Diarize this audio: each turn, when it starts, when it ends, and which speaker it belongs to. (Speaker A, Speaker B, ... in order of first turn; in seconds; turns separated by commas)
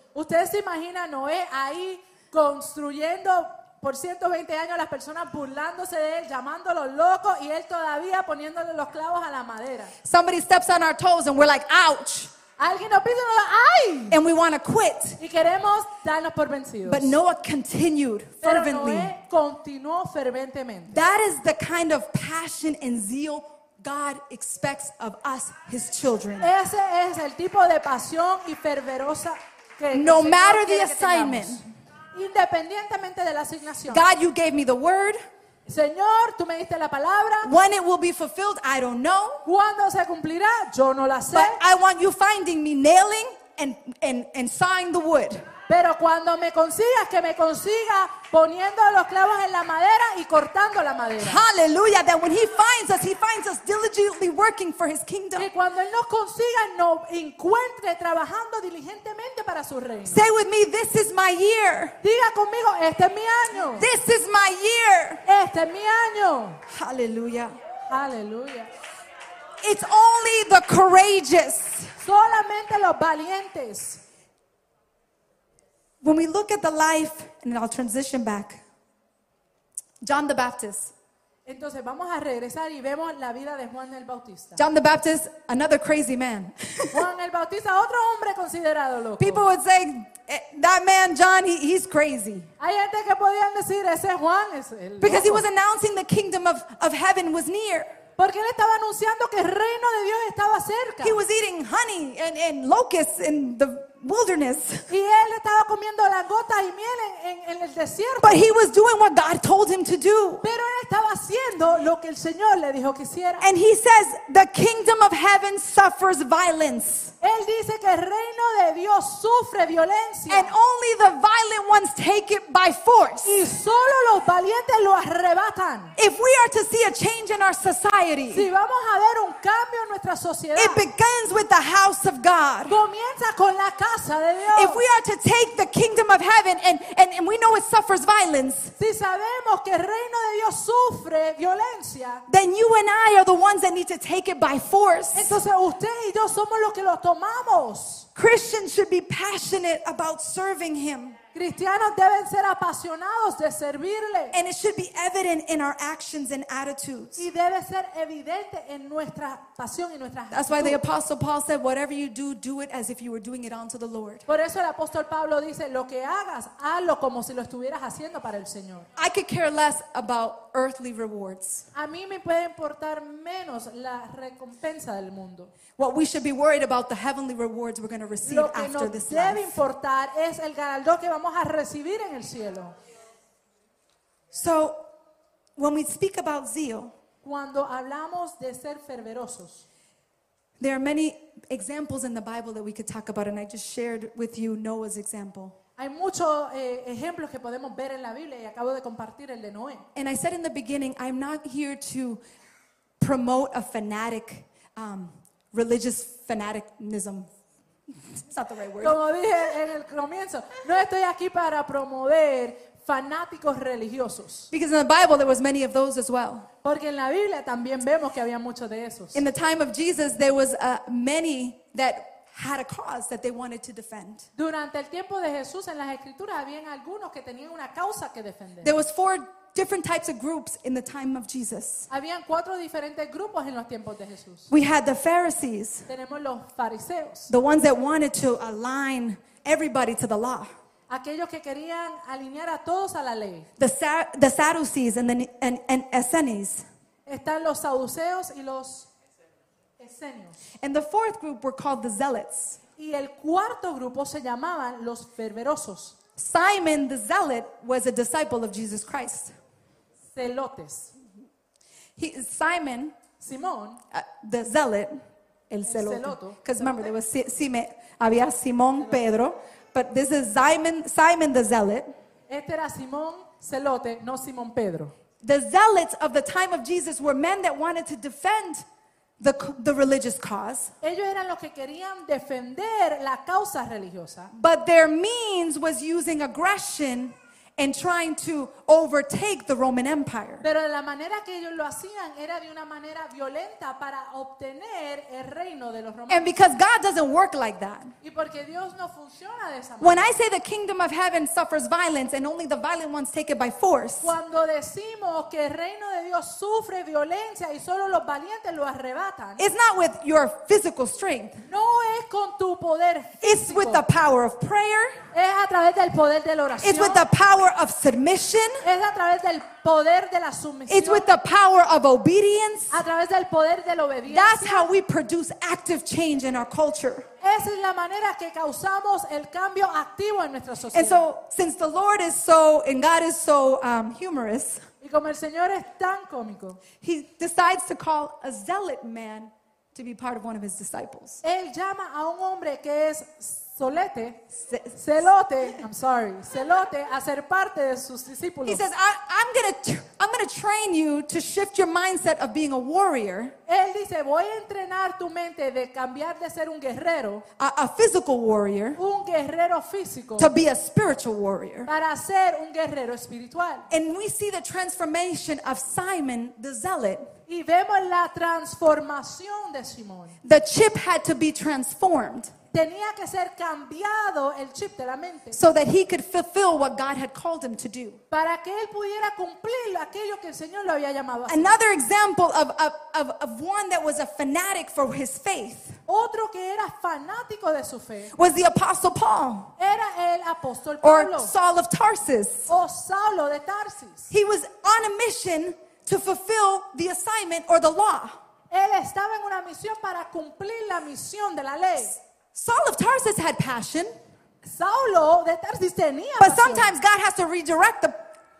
Speaker A: 0.1-9.9, Speaker B: 10.0-12.3, Speaker A: 12.6-14.2, Speaker B: 14.1-15.2, Speaker A: 15.2-17.2, Speaker B: 16.8-19.1, Speaker A: 18.4-21.0, Speaker B: 20.9-26.5, Speaker A: 26.4-31.6, Speaker B: 29.9-31.6, Speaker A: 32.1-34.0, Speaker B: 33.9-35.2, Speaker A: 35.6-37.5, Speaker B: 37.4-39.4, Speaker A: 39.4-41.6, Speaker B: 41.3-45.5, Speaker A: 45.7-51.4, Speaker B: 51.2-55.5, Speaker A: 55.4-60.2, Speaker B: 60.1-62.0, Speaker A: 62.0-63.9, Speaker B: 63.7-65.2, Speaker A: 65.2-66.6, Speaker B: 66.7-67.5, Speaker A: 67.9-68.7, Speaker B: 69.6-71.9, Speaker A: 72.0-74.0, Speaker B: 76.0-78.6, Speaker B: 80.0-80.9, Speaker A: 81.5-84.6, Speaker B: 84.6-87.0, Speaker A: 86.9-89.5, Speaker B: 89.2-92.5, Speaker A: 92.6-95.4, Speaker B: 95.0-97.9, Speaker A: 98.2-101.2, Speaker B: 101.0-104.9, Speaker A: 104.9-108.4, Speaker B: 108.2-110.4, Speaker A: 110.4-113.5, Speaker B: 113.4-117.1, Speaker A: 117.2-120.5, Speaker B: 120.3-123.4, Speaker A: 123.2-125.9, Speaker B: 126.0-128.5, Speaker A: 128.3-130.8, Speaker B: 130.6-132.8, Speaker A: 132.7-134.8, Speaker B: 134.5-138.7, Speaker A: 138.8-142.2, Speaker B: 142.3-145.4, Speaker A: 145.1-148.1, Speaker B: 148.1-151.2, Speaker A: 151.3-154.4, Speaker B: 154.3-157.3, Speaker A: 157.2-160.8, Speaker B: 160.3-164.2, Speaker A: 164.3-168.9, Speaker B: 168.9-171.7, Speaker A: 171.7-175.5, Speaker B: 175.8-179.6, Speaker A: 178.2-182.7, Speaker B: 184.3-184.8, Speaker B: 185.6-186.9, Speaker A: 187.2-189.6, Speaker B: 190.6-195.5, Speaker A: 195.8-199.8, Speaker B: 199.9-202.2, Speaker B: 203.0-207.3, Speaker B: 208.1-209.0, Speaker A: 208.8-214.5, Speaker B: 214.5-216.5, Speaker A: 216.6-219.2, Speaker B: 219.1-224.3, Speaker A: 224.3-228.8, Speaker B: 228.6-231.9, Speaker A: 231.9-234.5, Speaker B: 234.5-235.9, Speaker A: 235.9-237.3, Speaker B: 237.3-240.5, Speaker A: 240.9-243.5, Speaker B: 243.6-246.6, Speaker A: 247.1-248.9, Speaker A: 249.8-250.4, Speaker B: 250.6-252.6, Speaker A: 252.8-255.9, Speaker B: 256.1-259.3, Speaker A: 260.1-260.9, Speaker B: 262.0-262.9, Speaker A: 263.2-263.8, Speaker B: 263.9-265.0, Speaker B: 265.5-271.9, Speaker A: 265.6-266.9, Speaker A: 272.3-274.9, Speaker B: 275.2-278.6, Speaker B: 279.2-280.7, Speaker A: 280.8-284.3, Speaker B: 284.3-290.4, Speaker A: 290.4-296.3, Speaker B: 296.1-297.9, Speaker A: 298.0-300.1, Speaker B: 299.8-304.1, Speaker A: 304.0-309.4, Speaker B: 309.4-311.4, Speaker A: 311.4-313.8, Speaker B: 313.2-315.0, Speaker A: 315.1-317.0, Speaker B: 316.6-318.6, Speaker A: 318.6-321.1, Speaker B: 320.7-322.8, Speaker A: 322.7-324.7, Speaker B: 324.1-327.1, Speaker A: 327.2-331.1, Speaker B: 330.7-334.6, Speaker A: 334.8-336.6, Speaker B: 336.8-341.2, Speaker A: 341.2-344.2, Speaker B: 344.4-344.8, Speaker A: 344.8-348.6, Speaker B: 348.4-353.3, Speaker A: 353.5-357.2, Speaker B: 357.4-358.8, Speaker A: 358.8-360.3, Speaker B: 360.2-361.7, Speaker A: 361.6-363.7, Speaker B: 363.7-367.1, Speaker A: 367.3-370.2, Speaker B: 370.2-372.3, Speaker A: 372.5-375.4, Speaker B: 375.3-378.0, Speaker A: 378.1-381.6, Speaker B: 381.3-385.8, Speaker A: 385.9-388.1, Speaker B: 388.1-389.5, Speaker A: 389.6-391.3, Speaker B: 390.8-392.5, Speaker A: 392.5-394.1, Speaker B: 394.1-398.1, Speaker A: 398.5-402.0, Speaker B: 402.3-403.9, Speaker A: 404.4-406.7, Speaker B: 406.2-407.9